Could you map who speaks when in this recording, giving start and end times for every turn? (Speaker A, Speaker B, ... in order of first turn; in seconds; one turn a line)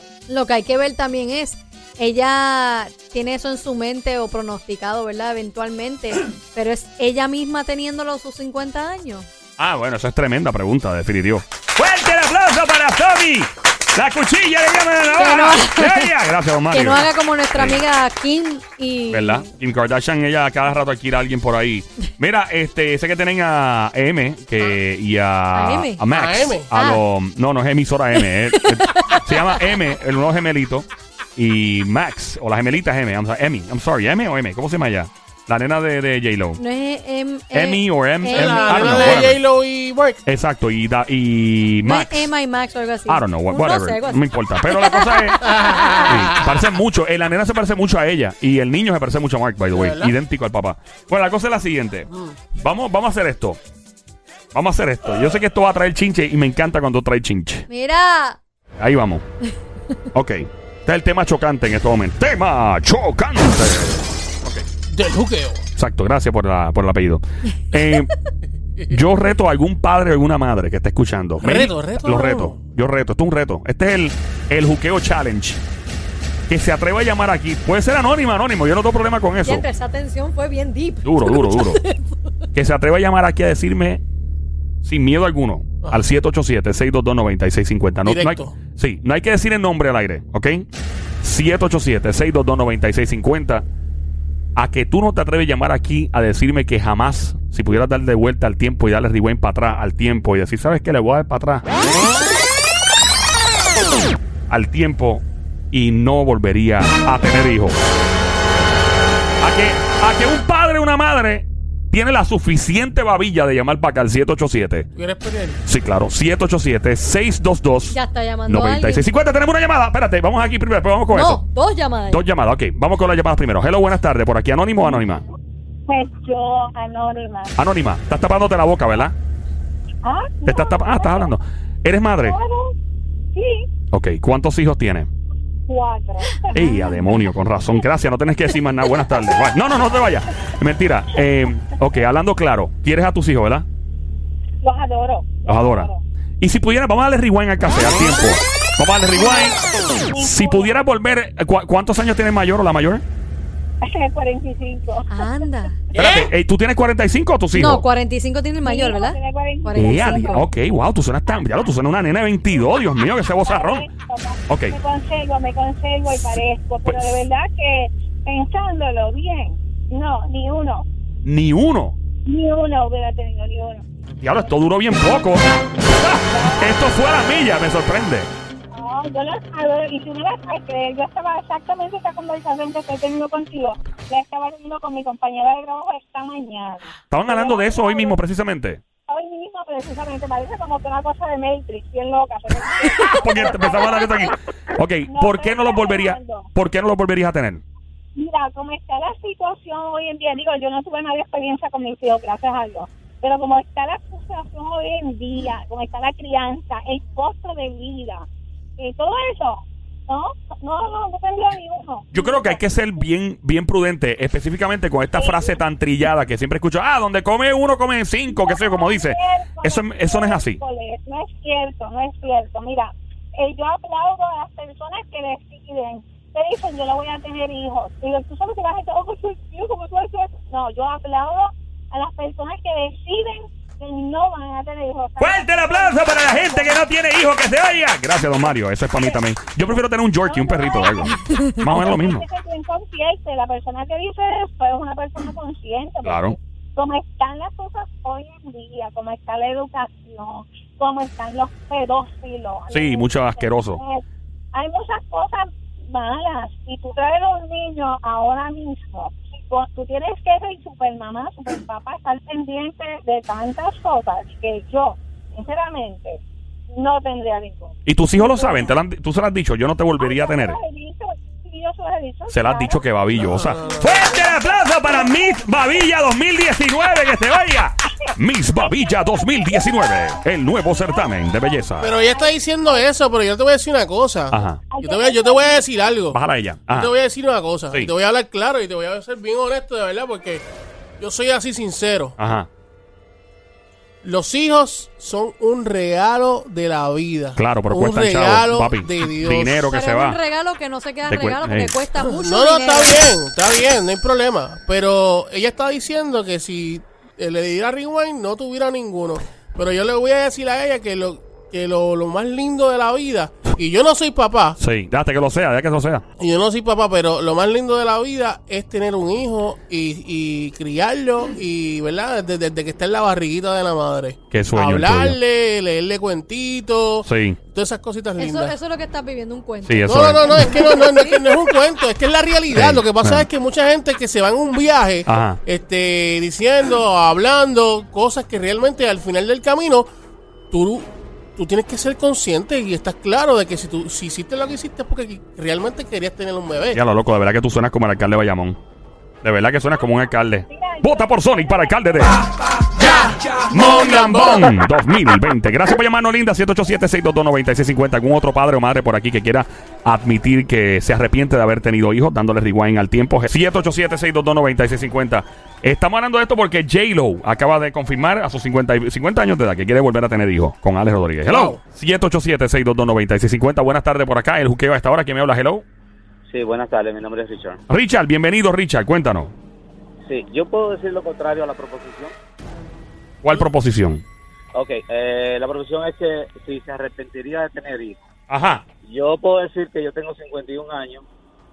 Speaker A: 0.3-9.3
Speaker B: 9.6-17.8
Speaker A: 15.2-16.1
Speaker A: 16.7-19.5
Speaker B: 19.1-36.6
Speaker A: 25.5-26.1
Speaker C: 26.1-26.7
Speaker A: 26.7-27.0
Speaker A: 28.1-29.8
Speaker A: 36.6-39.3
Speaker B: 37.5-39.4
Speaker C: 38.3-40.2
Speaker B: 40.2-42.3
Speaker A: 41.8-46.3
Speaker B: 43.1-45.5
Speaker C: 45.5-46.5
Speaker B: 46.0-53.6
Speaker C: 49.7-50.1
Speaker C: 52.1-52.4
Speaker B: 54.5-57.6
Speaker A: 57.7-58.4
Speaker B: 58.8-59.2
Speaker B: 60.1-64.7
Speaker C: 64.9-65.7
Speaker B: 65.8-68.1
Speaker B: 68.9-75.6
Speaker C: 71.4-72.6
Speaker B: 76.5-79.7
Speaker A: 79.4-82.2
Speaker B: 81.0-81.8
Speaker B: 82.5-84.0
Speaker B: 84.8-90.7
Speaker C: 85.8-86.1
Speaker C: 88.0-88.6
Speaker B: 91.2-93.6
Speaker B: 94.5-101.7
Speaker B: 104.5-107.8
Speaker B: 109.4-114.9
Speaker C: 114.9-115.6
Speaker B: 115.7-121.4
Speaker A: 117.9-119.1
Speaker A: 121.1-122.2
Speaker B: 122.1-125.2
Speaker D: 125.9-127.5
Speaker B: 127.6-129.1
Speaker D: 130.0-131.3
Speaker B: 130.4-132.4
Speaker D: 132.2-132.7
Speaker D: 133.3-133.7
Speaker B: 133.9-135.1
Speaker D: 135.7-136.9
Speaker B: 136.5-143.6
Speaker D: 144.6-146.0
Speaker B: 145.4-149.6
Speaker D: 150.1-150.8
Speaker B: 150.1-153.0
Speaker D: 153.8-155.7
Speaker A: 155.1-155.8
Speaker B: 155.9-157.8
Speaker A: 157.5-160.4
Speaker D: 158.6-160.4
Speaker B: 159.8-163.9
Speaker D: 163.4-170.8
Speaker B: 164.5-164.8
Speaker B: 166.8-167.2
Speaker B: 171.2-171.9
Speaker D: 172.2-173.8
Speaker B: 174.2-178.3
Speaker D: 176.2-176.7
Speaker D: 178.7-188.2
Speaker B: 187.1-188.8
Speaker D: 189.1-194.3
Speaker B: 193.0-197.6
Speaker D: 195.1-196.5
Speaker D: 198.2-208.2
Speaker D: 208.8-212.6
Speaker B: 212.1-220.6
Speaker D: 215.2-215.6
Speaker D: 218.3-236.8
Speaker B: 235.2-242.2
Speaker D: 240.2-266.2
Speaker B: 246.0-246.3
Speaker B: 252.7-253.8
Speaker D: 266.7-268.7
Speaker B: 267.9-270.6
Speaker D: 270.0-272.8
Speaker B: 272.3-281.9
Speaker C: 273.2-274.1
Speaker D: 273.4-275.6
Speaker D: 278.6-279.2
Speaker C: 281.8-290.4
Speaker D: 281.8-282.8
Speaker B: 284.3-284.7
Speaker D: 284.7-285.6
Speaker B: 286.1-286.9
Speaker C: 291.0-292.1
Speaker B: 292.2-292.5
Speaker C: 294.0-299.6
Speaker B: 297.4-300.2
Speaker A: 299.6-303.0
Speaker B: 301.1-301.8
Speaker C: 302.0-314.6
Speaker B: 314.6-316.0
Speaker C: 316.2-328.6
Speaker B: 324.3-325.2
Speaker B: 327.0-327.4
Speaker A: 328.2-331.4
Speaker B: 329.6-330.5
Speaker C: 329.9-339.9
Speaker B: 332.5-333.2
Speaker B: 335.1-335.4
Speaker C: 340.5-346.8
Speaker B: 346.7-348.6
Speaker B: 349.2-352.2
Speaker D: 350.5-351.7
Speaker C: 352.8-354.5
Speaker B: 353.5-375.6
Speaker C: 371.2-371.6
Speaker E: 376.3-377.6
Speaker B: 377.7-379.3
Speaker E: 380.1-382.1
Speaker B: 383.2-384.0
Speaker E: 384.5-388.1
Speaker B: 388.3-388.6
Speaker E: 388.8-391.0